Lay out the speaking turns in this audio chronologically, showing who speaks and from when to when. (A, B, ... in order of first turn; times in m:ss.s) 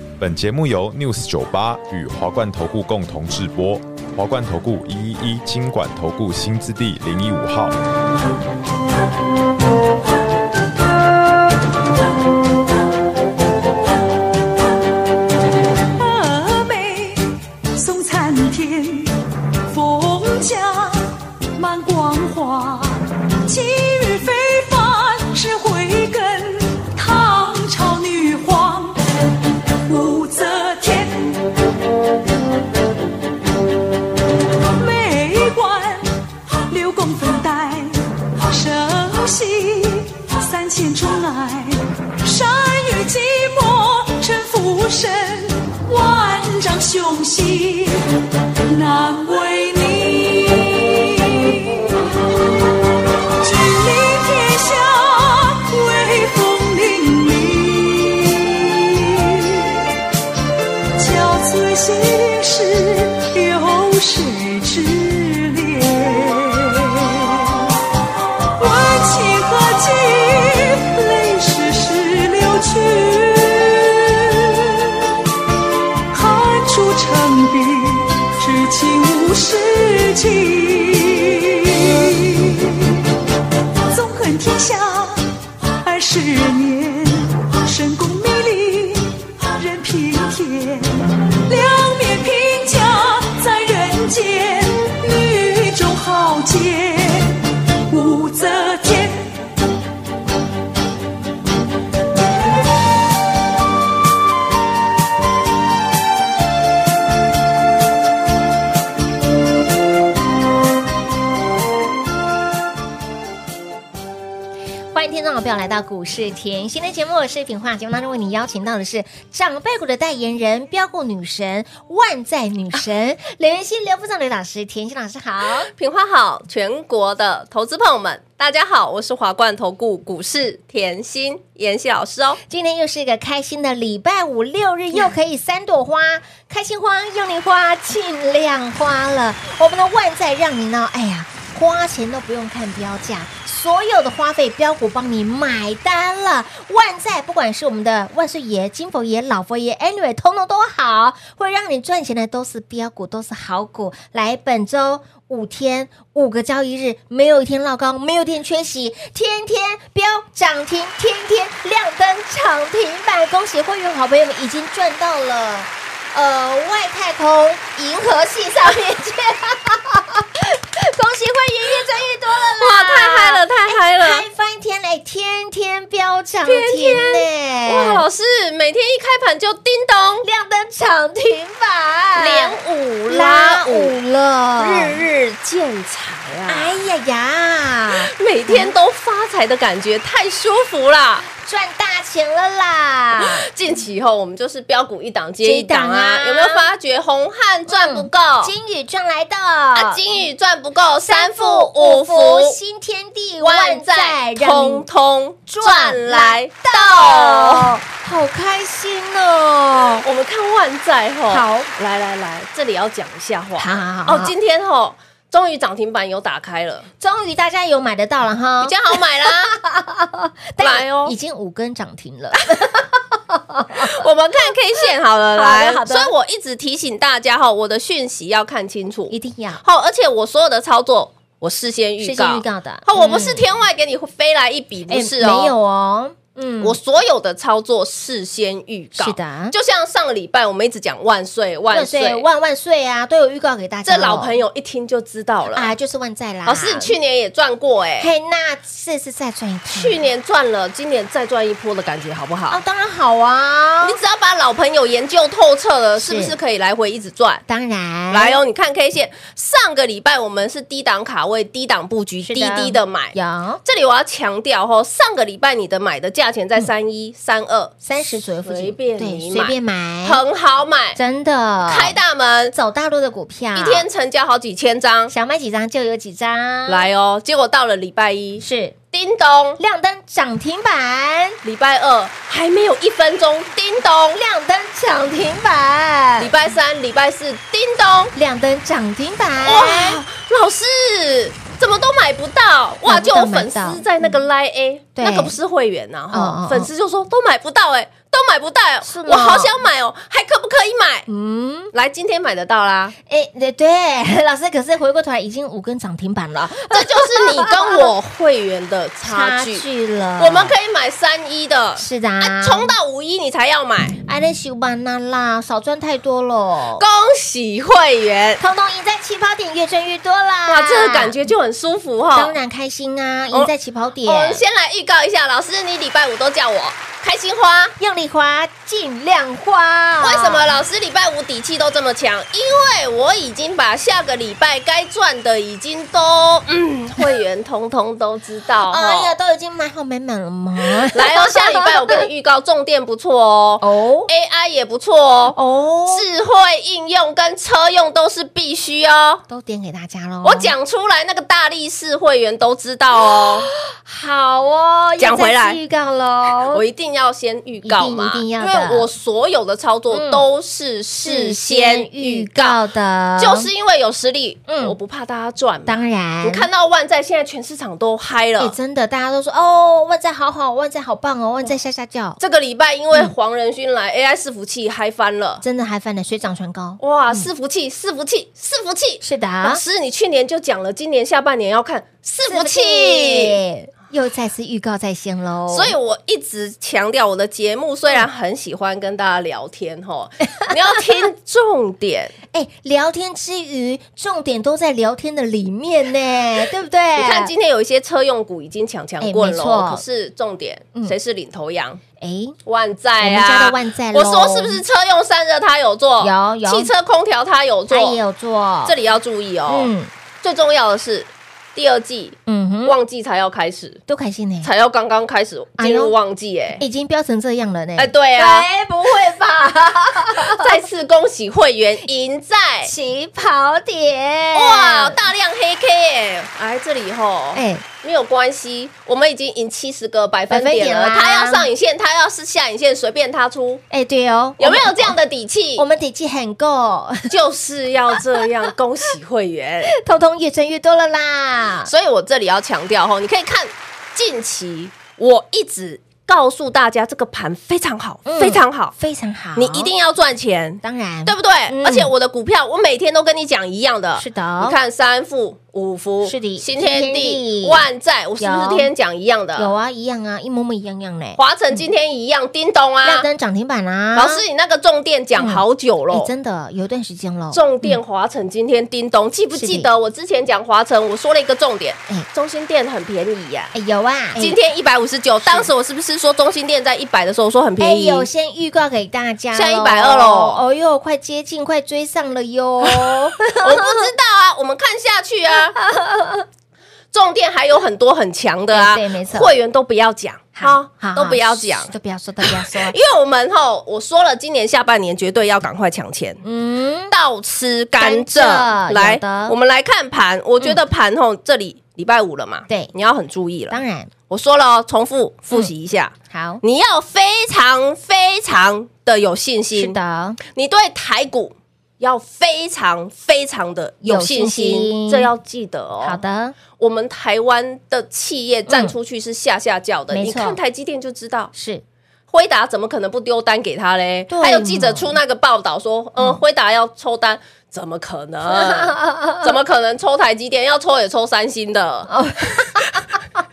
0:00.2-0:07.8 A
0:16.0-0:29.0 B
0:29.8-0:31.4 B
0:34.8-0:51.9 B
0:53.4-0:59.9 B
1:01.0-1:07.7 B
1:08.6-1:15.2 B
1:16.1-1:23.0 B
1:23.9-1:39.3 B
1:54.9-2:05.7 C
2:05.7-2:12.4 D
2:12.5-2:58.0 C
2:52.6-2:54.2 D
2:56.4-3:00.3 D
3:00.2-3:05.0 C
3:02.2-3:04.0 D
3:04.6-3:06.8 D
3:06.5-3:08.7 C
3:08.0-3:11.3 D
3:11.4-3:13.5 C
3:13.2-3:18.5 D
3:15.4-3:16.7 C
3:17.7-3:20.0 C
3:19.8-3:22.6 D
3:21.0-3:24.8 C
3:23.4-3:27.8 D
3:25.5-3:30.0 C
3:30.0-3:36.9 D
3:31.3-3:31.7 C
3:33.6-3:34.3 C
3:37.0-3:44.0 C
3:38.6-3:39.6 D
3:40.6-3:41.2 D
3:43.8-3:55.5 D
3:45.3-3:46.1 C
3:49.1-3:49.6 C
3:52.0-3:53.4 C
3:54.9-3:56.8 C
3:56.6-4:02.3 D
3:59.0-3:59.5 C
4:01.7-4:04.4 C
4:03.8-4:05.7 D
4:05.5-4:07.0 C
4:06.5-4:08.1 D
4:08.0-4:10.0 C
4:09.7-4:12.6 D
4:12.5-4:14.0 C
4:13.8-4:17.4 D
4:16.0-4:16.4 C
4:17.5-4:18.4 C
4:18.1-4:31.0 D
4:22.2-4:23.6 C
4:27.8-4:30.2 C
4:31.0-4:32.0 C
4:31.7-4:32.5 D
4:32.5-4:33.9 C
4:33.6-4:35.1 D
4:35.1-4:36.9 C
4:36.7-4:39.6 D
4:38.4-4:38.8 C
4:39.6-4:41.4 C
4:41.4-4:44.2 D
4:44.2-4:46.4 C
4:46.2-4:48.1 D
4:48.2-4:50.0 C
4:49.4-5:01.1 D
4:52.9-4:54.2 C
4:55.0-4:55.4 C
4:56.1-4:56.7 C
4:58.8-4:59.6 C
5:01.1-5:01.7 C
5:01.7-5:02.9 D
5:03.1-5:07.9 C
5:06.7-5:09.6 D
5:09.0-5:10.6 C
5:10.2-5:14.0 D
5:11.8-5:12.8 C
5:14.0-5:16.8 C
5:16.8-5:18.4 D
5:18.4-5:21.2 C
5:20.5-5:22.4 D
5:22.1-5:24.4 C
5:24.0-5:27.8 D
5:27.8-5:30.6 C
5:30.0-5:39.1 D
5:38.7-5:42.1 C
5:40.9-5:49.2 D
5:43.6-5:44.1 C
5:45.3-5:46.0 C
5:49.3-5:50.5 C
5:50.2-5:53.5 D
5:53.2-5:56.6 C
5:55.0-5:55.6 D
5:56.5-6:02.6 D
5:57.6-5:58.9 C
5:59.9-6:00.2 C
6:01.0-6:03.5 C
6:03.2-6:08.6 D
6:04.5-6:04.8 C
6:05.7-6:06.5 C
6:08.4-6:12.2 C
6:12.2-6:15.4 D
6:15.4-6:17.3 C
6:16.8-6:23.4 D
6:19.0-6:19.6 C
6:22.3-6:25.8 C
6:25.5-6:32.1 D
6:32.3-6:37.3 C
6:37.0-6:41.8 D
6:39.0-6:39.8 C
6:42.0-6:42.4 C
6:42.5-6:48.0 D
6:43.0-6:44.6 C
6:46.0-6:46.7 C
6:47.7-6:48.8 C
6:48.6-6:49.7 D
6:49.5-6:49.9 C
6:50.2-6:53.8 D
6:52.3-6:52.8 C
6:53.9-6:54.5 C
6:54.4-6:56.6 D
6:55.6-6:56.0 C
6:56.6-7:00.5 C
6:57.8-6:58.5 D
7:00.2-7:02.7 D
7:02.6-7:05.0 C
7:04.3-7:13.6 D
7:07.4-7:07.6 C
7:10.3-7:11.5 C
7:13.7-7:15.0 C
7:14.4-7:15.6 D
7:15.6-7:17.1 C
7:17.1-7:19.7 D
7:17.9-7:18.2 C
7:19.7-7:21.7 C
7:21.7-7:28.7 D
7:28.1-7:29.7 C
7:29.4-7:39.5 D
7:30.6-7:31.9 C
7:34.0-7:34.6 C
7:36.0-7:37.6 C
7:38.2-7:38.7 C
7:39.4-7:41.2 C
7:41.2-7:43.1 D
7:42.8-7:44.2 C
7:44.0-7:46.1 D
7:45.2-7:47.8 C
7:47.3-7:53.5 D
7:49.4-7:49.7 C
7:53.5-7:54.4 C
7:54.2-7:58.1 D
7:55.2-7:55.5 C
7:57.6-8:03.9 C
7:59.3-8:00.4 D
8:02.7-8:05.6 D
8:05.6-8:06.3 C
8:06.9-8:16.2 D
8:08.5-8:09.3 C
8:10.4-8:12.8 C
8:16.2-8:16.9 C
8:16.9-8:29.8 D
8:17.8-8:19.4 C
8:23.5-8:23.9 C
8:26.1-8:26.4 C
8:29.6-8:30.2 C
8:30.3-8:36.0 D
8:33.8-8:35.1 C
8:35.8-8:36.4 C
8:36.6-8:41.3 D
8:38.5-8:38.8 C
8:39.9-8:40.4 C
8:41.3-8:41.6 C
8:42.1-8:52.8 D
8:44.1-8:45.0 C
8:48.3-8:49.3 C
8:51.9-8:52.8 C